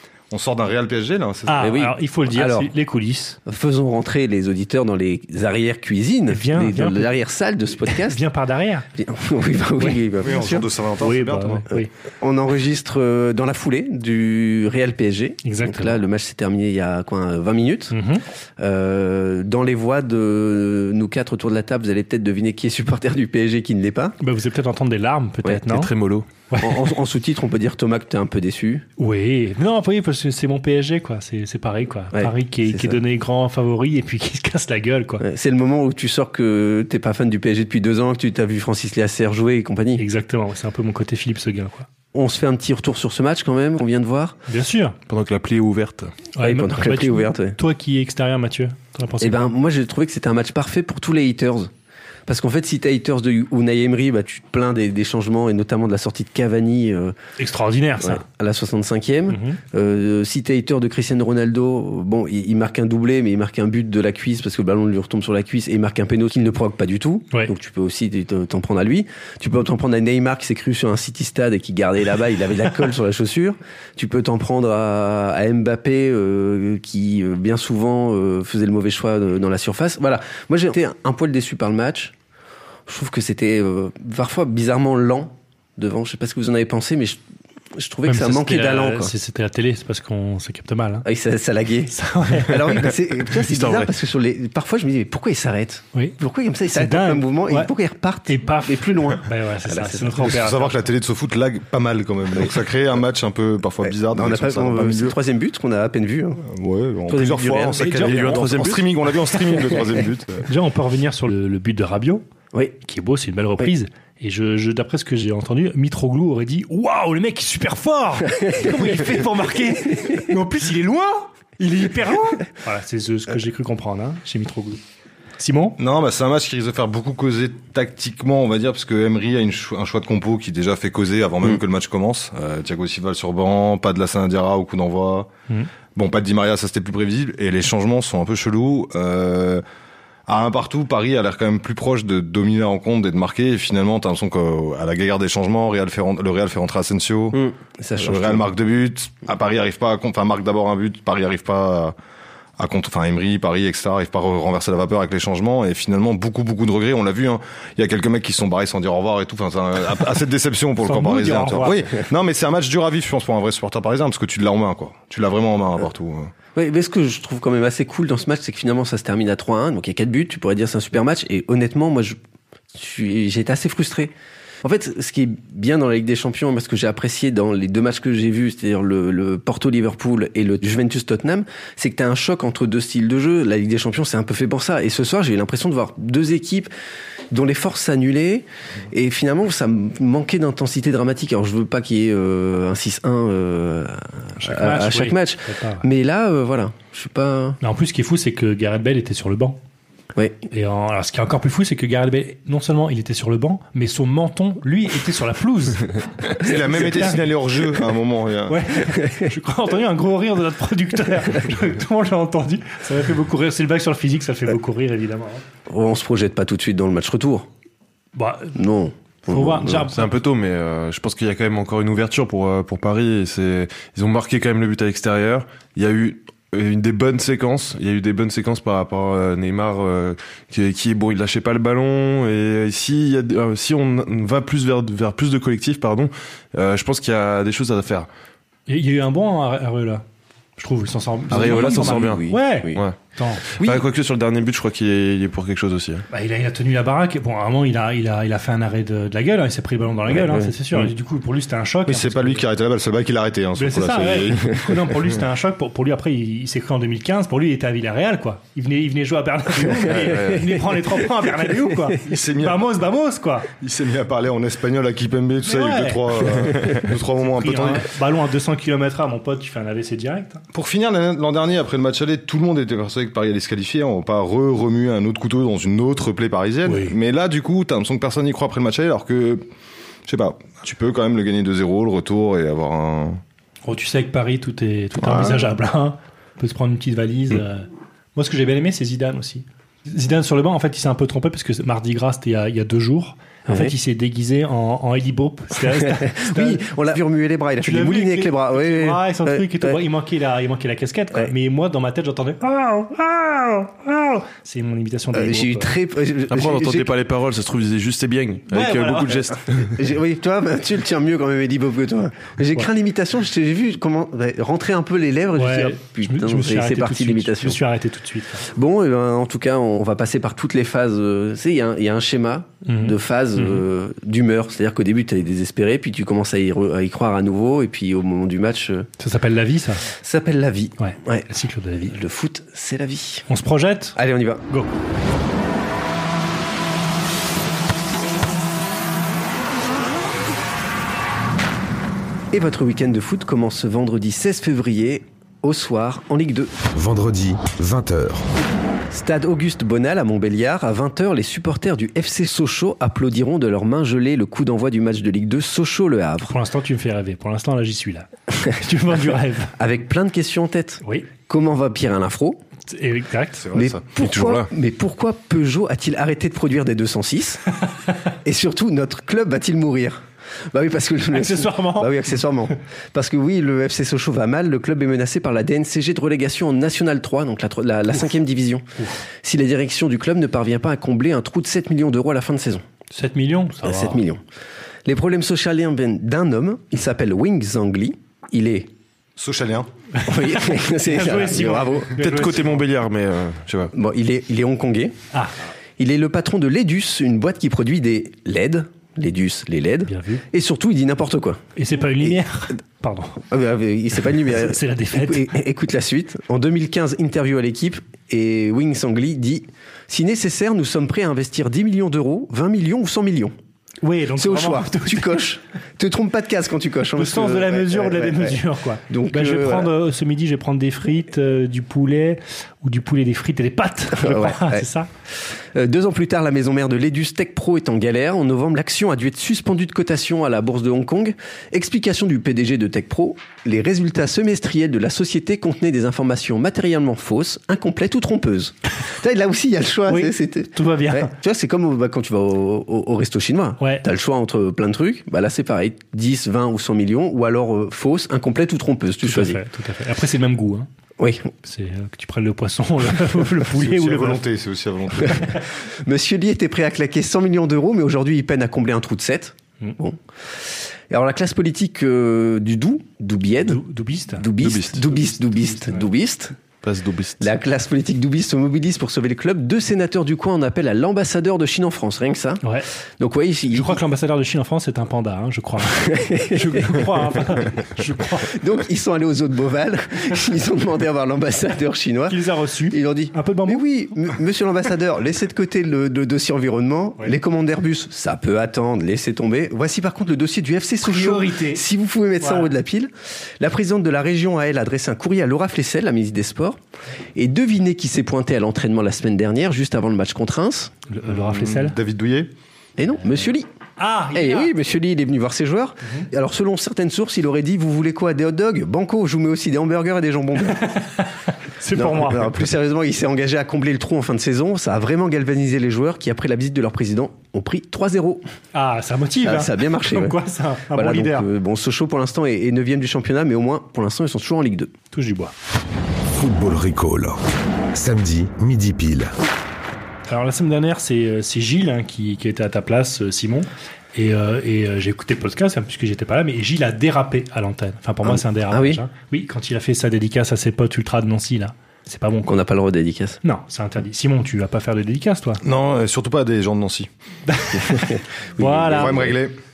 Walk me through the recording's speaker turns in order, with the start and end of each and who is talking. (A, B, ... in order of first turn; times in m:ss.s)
0:00.3-0:01.7 A
0:01.5-0:03.4 B
0:01.6-0:02.7 C
0:03.5-0:08.2 C
0:06.3-0:07.1 B
0:07.9-0:08.9 B
0:09.0-0:10.6 C
0:10.2-0:11.6 A
0:11.0-0:11.9 B
0:12.2-0:17.9 C
0:15.4-0:16.0 B
0:17.9-0:18.2 B
0:18.6-0:24.2 C
0:24.2-0:25.9 B
0:25.7-0:26.3 D
0:26.5-0:26.8 B
0:26.6-0:28.8 C
0:29.0-0:35.2 B
0:32.1-0:33.0 C
0:35.2-0:40.0 C
0:40.0-0:41.9 B
0:42.1-0:44.4 C
0:44.5-0:45.0 B
0:45.1-0:46.1 D
0:46.4-0:49.5 B
0:46.4-0:47.6 C
0:49.2-0:51.7 C
0:52.3-0:57.2 C
0:57.4-0:58.2 B
0:58.0-1:22.1 C
0:59.3-0:59.6 B
1:22.9-1:27.2 C
1:27.8-1:29.1 C
1:28.1-1:31.1 B
1:31.1-1:40.4 C
1:31.9-1:32.9 B
1:33.3-1:33.9 D
1:36.7-1:37.7 B
1:38.3-1:40.9 B
1:40.2-1:45.2 A
1:43.9-1:46.4 C
1:46.5-1:50.5 A
1:47.1-1:48.8 C
1:47.8-1:48.2 B
1:48.3-1:48.8 D
1:50.5-1:52.2 B
1:52.8-2:04.8 B
1:58.4-1:59.0 C
2:05.4-2:05.8 B
2:05.8-2:15.3 A
2:16.0-2:19.6 A
2:20.3-2:27.4 A
2:27.3-2:28.4 C
2:28.0-2:32.0 A
2:32.6-2:46.3 A
2:40.8-2:41.8 B
2:46.6-2:52.2 C
2:52.7-2:54.1 C
2:54.6-3:06.7 C
3:07.3-3:17.6 C
3:14.4-3:15.8 B
3:17.6-3:19.6 B
3:20.5-3:27.2 B
3:26.4-3:28.7 A
3:28.5-3:35.4 B
3:35.7-3:37.5 C
3:38.2-3:38.6 B
3:38.6-3:39.9 C
3:39.3-3:40.1 B
3:39.9-3:58.1 D
3:58.7-4:00.0 B
4:00.6-4:03.4 B
4:01.3-4:02.8 C
4:01.3-4:03.0 D
4:03.6-4:03.8 C
4:03.6-4:06.1 D
4:06.1-4:12.4 B
4:10.1-4:10.5 C
4:11.9-4:14.6 A
4:13.6-4:23.5 B
4:20.0-4:20.6 D
4:22.0-4:22.7 A
4:23.6-4:27.9 A
4:25.5-4:26.3 B
4:27.3-4:30.4 B
4:30.5-4:39.4 A
4:36.6-4:37.0 B
4:40.1-4:43.2 A
4:43.6-4:56.7 B
4:55.8-4:59.8 C
4:57.6-5:05.8 B
5:05.1-5:06.9 C
5:06.3-5:09.8 D
5:08.5-5:09.3 B
5:09.8-5:17.6 C
5:15.4-5:18.5 B
5:18.5-5:28.9 C
5:22.7-5:23.6 B
5:29.0-5:29.8 B
5:30.0-5:31.3 C
5:30.8-5:32.0 B
5:31.9-5:33.2 C
5:33.3-5:34.0 B
5:34.0-5:34.4 C
5:42.3-5:46.5 C
5:46.7-5:48.3 E
5:48.9-5:56.3 C
5:56.2-5:59.5 B
5:59.6-6:02.4 C
6:02.7-6:03.5 B
6:03.4-6:03.8 A
6:03.5-6:07.6 C
6:04.0-6:04.5 D
6:08.2-6:18.6 C
6:11.1-6:11.9 B
6:19.2-6:22.6 C
6:22.9-6:24.0 B
6:23.6-6:24.2 C
6:24.8-6:28.7 C
6:29.2-6:29.7 A
6:30.0-6:32.6 B
6:30.1-6:32.0 C
6:32.0-6:33.7 D
6:33.7-6:35.0 C
6:35.8-6:41.5 C
6:39.9-6:40.2 B
6:41.6-6:43.2 B
6:43.3-6:53.3 C
6:44.4-6:45.4 B
6:53.8-6:55.2 B
6:54.2-6:59.7 C
6:57.0-7:04.9 B
7:04.0-7:04.7 C
7:05.5-7:29.4 C
7:19.9-7:21.1 B
7:23.6-7:23.8 B
7:29.0-7:30.7 B
7:31.0-7:31.3 C
7:31.4-7:34.2 B
7:33.5-7:35.4 A
7:35.8-7:40.0 C
7:40.9-7:43.6 C
7:43.5-7:44.3 B
7:44.2-7:46.4 C
7:44.4-7:44.9 D
7:44.9-7:45.9 B
7:46.6-7:47.3 D
7:47.2-7:52.4 C
7:53.0-7:53.8 C
7:53.5-7:58.4 B
7:55.9-7:56.9 C
7:58.3-8:16.6 C
8:02.1-8:03.6 B
8:10.8-8:11.6 B
8:12.2-8:12.5 B
8:17.2-8:20.7 C
8:20.9-8:21.8 B
8:21.1-8:22.3 A
8:22.8-8:23.5 C
8:23.8-8:24.5 B
8:24.1-8:30.7 C
8:30.7-8:32.4 B
8:31.8-8:38.2 C
8:38.5-8:41.3 B
8:39.2-8:40.2 C
8:40.8-8:44.7 C
8:44.9-8:45.3 B
8:46.1-8:47.2 E
8:47.7-8:49.2 E
8:50.1-9:02.3 B
8:58.0-8:58.8 C
9:02.3-9:03.2 C
9:03.2-9:05.4 B
9:05.4-9:06.9 A
9:07.3-9:07.9 B
9:07.7-9:09.2 C
9:08.4-9:09.1 B
9:08.7-9:09.4 A